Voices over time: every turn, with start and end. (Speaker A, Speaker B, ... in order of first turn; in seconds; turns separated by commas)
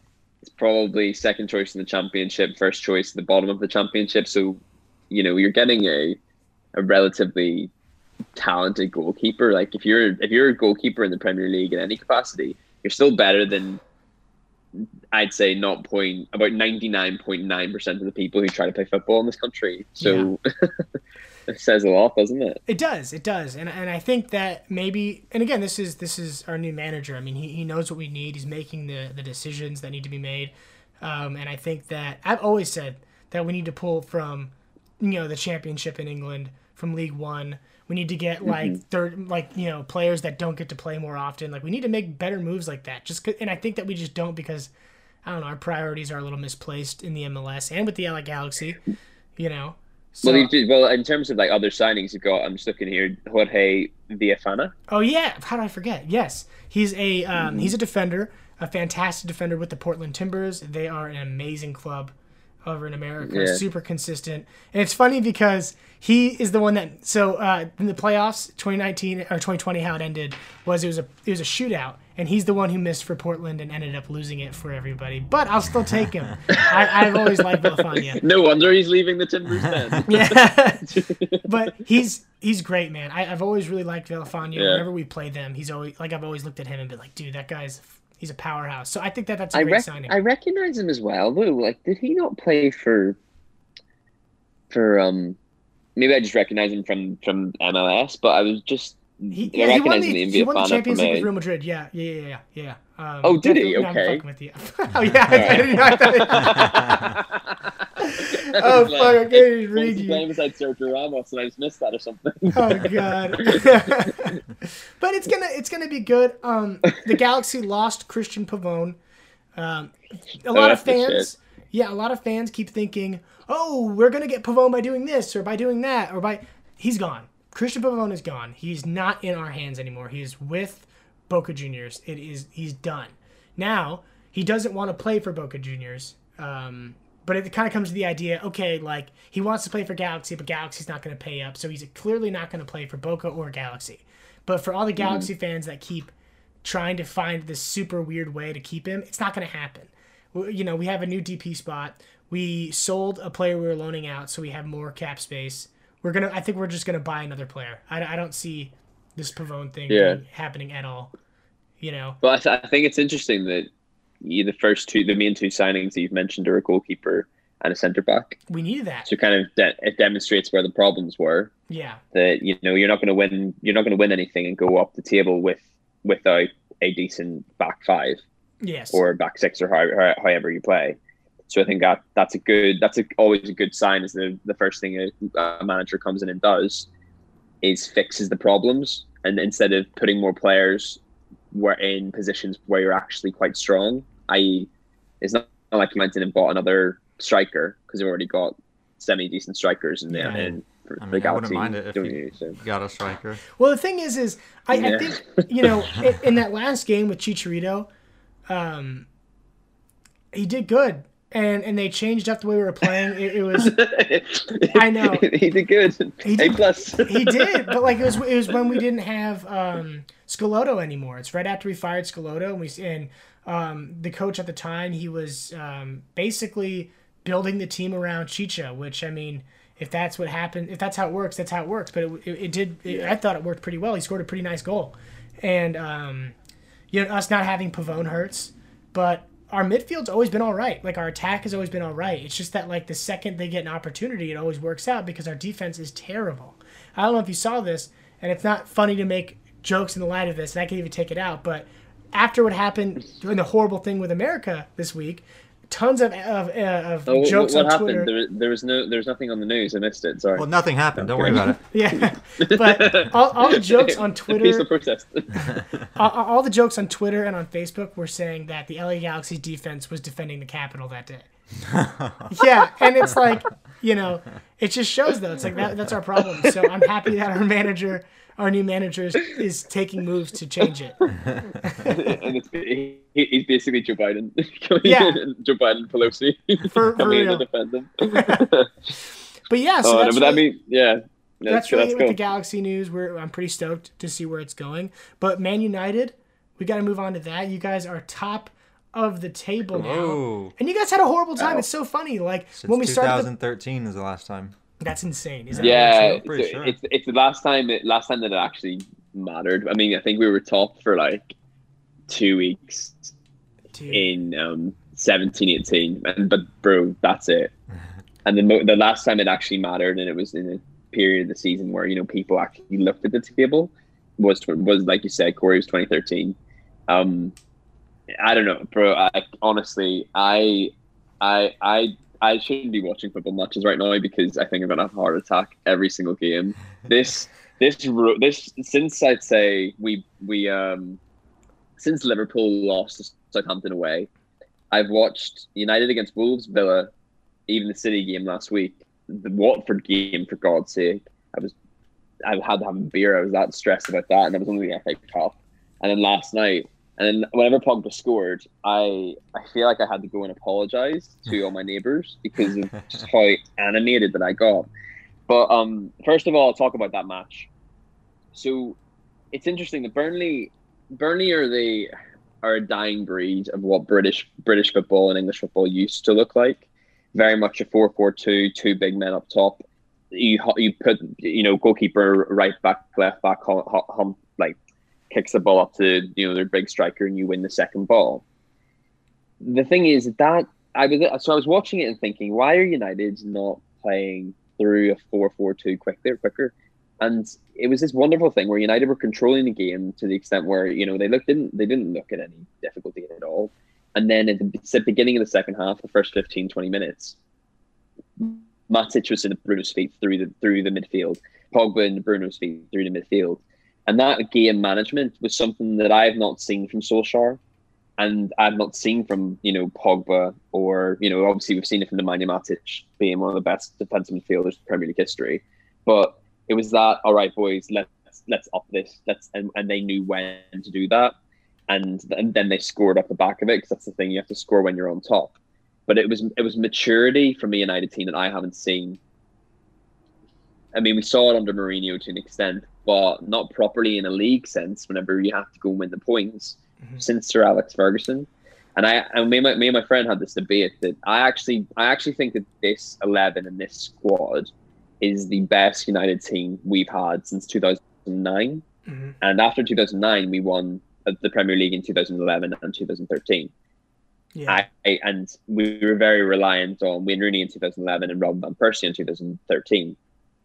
Speaker A: 0.4-4.6, Speaker A: 5.1-6.2, Speaker A: 6.8-7.7, Speaker A: 8.4-13.8, Speaker A: 14.8-20.8, Speaker B: 20.0-20.3, Speaker A: 21.5-22.6, Speaker B: 22.7-44.7, Speaker A: 38.4-38.8, Speaker B: 45.2-48.8, Speaker B: 49.4-50.5, Speaker A: 50.2-54.7, Speaker B: 54.9-62.1, Speaker A: 57.4-57.7, Speaker B: 62.6-78.2, Speaker A: 63.2-63.6, Speaker A: 76.5-81.5, Speaker B: 80.1-80.9, Speaker B: 81.5-90.2, Speaker A: 84.5-84.8, Speaker A: 89.5-93.2, Speaker A: 94.7-95.4, Speaker A: 96.0-101.3, Speaker B: 99.3-106.9, Speaker A: 103.2-104.2, Speaker A: 105.3-114.1, Speaker C: 106.4-107.1, Speaker B: 108.0-110.2, Speaker B: 112.5-119.0, Speaker B: 119.6-146.1, Speaker A: 120.5-121.3, Speaker A: 145.0-145.3, Speaker B: 146.6-161.1, Speaker A: 159.9-160.2, Speaker B: 161.8-162.2, Speaker A: 162.2-163.7, Speaker A: 164.2-168.4, Speaker B: 168.5-169.1, Speaker A: 169.1-171.5, Speaker B: 171.7-172.0, Speaker A: 172.1-178.2, Speaker B: 178.6-179.0, Speaker A: 178.9-181.0, Speaker A: 181.5-186.9, Speaker A: 187.6-191.0, Speaker A: 191.5-194.7, Speaker A: 195.2-202.6, Speaker B: 200.1-200.4, Speaker C: 200.2-203.4, Speaker B: 203.6-207.9, Speaker A: 204.7-205.7, Speaker B: 208.5-209.1, Speaker B: 210.3-213.7, Speaker A: 213.6-217.7, Speaker B: 214.7-215.3, Speaker B: 216.2-236.3, Speaker A: 232.9-233.2, Speaker B: 236.9-258.1, Speaker A: 257.1-265.5, Speaker C: 260.4-261.6, Speaker B: 261.7-264.7, Speaker B: 265.4-271.3, Speaker C: 271.6-272.3, Speaker B: 272.3-281.0, Speaker B: 281.6-282.2, Speaker A: 281.9-288.9, Speaker B: 284.8-285.2, Speaker B: 286.6-287.5, Speaker B: 288.1-288.5, Speaker B: 289.5-290.4, Speaker A: 289.8-292.2, Speaker B: 291.5-303.3, Speaker C: 299.7-300.5, Speaker A: 301.4-301.6, Speaker C: 302.6-304.6, Speaker B: 304.8-306.2, Speaker C: 305.5-306.8, Speaker A: 305.6-311.3, Speaker A: 312.1-313.1, Speaker B: 313.7-314.1, Speaker A: 313.9-317.5, Speaker A: 318.2-326.4, Speaker A: 326.9-327.3, Speaker A: 328.2-341.0, Speaker A: 341.8-344.1, Speaker A: 344.7-346.9, Speaker A: 347.5-351.5, Speaker A: 352.2-364.7, Speaker A: 365.3-367.5, Speaker A: 368.3-368.8, Speaker A: 369.3-384.6, Speaker A: 385.1-388.2, Speaker A: 389.4-407.2, Speaker A: 408.2-417.4, Speaker A: 418.0-431.1, Speaker A: 431.7-439.0, Speaker A: 440.7-454.5, Speaker A: 455.0-458.6, Speaker B: 458.9-459.2, Speaker A: 459.2-463.5, Speaker B: 464.4-464.6, Speaker A: 464.5-470.0